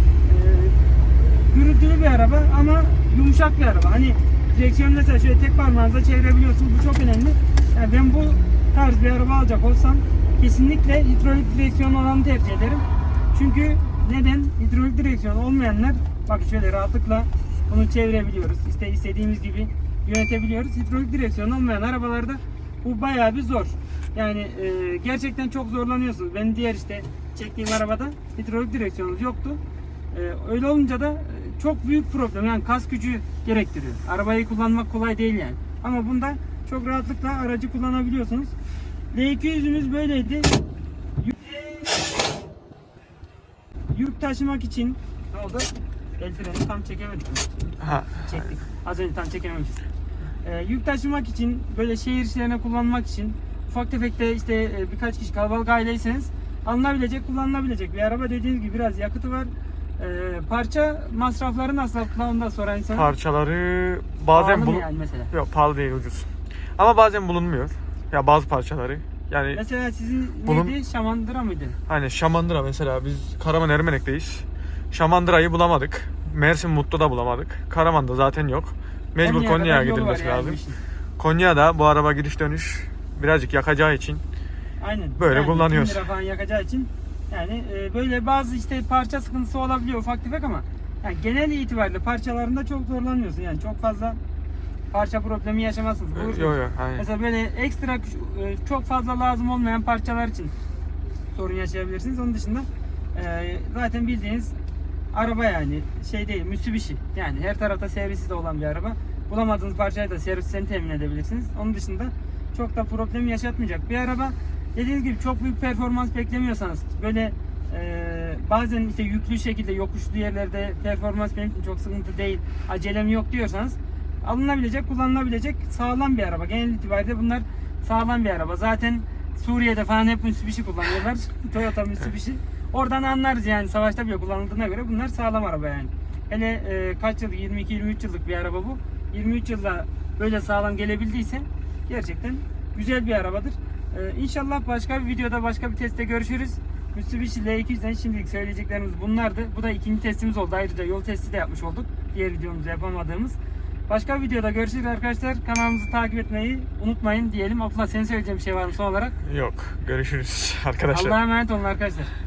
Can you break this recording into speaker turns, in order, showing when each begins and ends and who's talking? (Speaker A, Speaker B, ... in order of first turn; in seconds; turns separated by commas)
Speaker A: 0.2-29.6, Speaker A: 30.1-38.5, Speaker A: 39.1-40.5, Speaker A: 41.2-42.0, Speaker A: 43.9-47.5, Speaker B: 47.8-48.2, Speaker A: 48.1-49.8, Speaker A: 50.4-63.1, Speaker B: 62.9-69.6, Speaker A: 64.3-65.3, Speaker A: 69.5-71.8, Speaker B: 70.5-70.7, Speaker B: 71.9-80.6, Speaker A: 79.2-80.8, Speaker B: 81.2-84.2, Speaker A: 84.8-94.2, Speaker B: 85.2-86.0, Speaker A: 94.9-100.5, Speaker B: 96.2-97.1, Speaker A: 101.3-104.5, Speaker A: 105.1-153.4, Speaker A: 153.9-159.2, Speaker B: 159.2-161.2, Speaker A: 160.9-162.1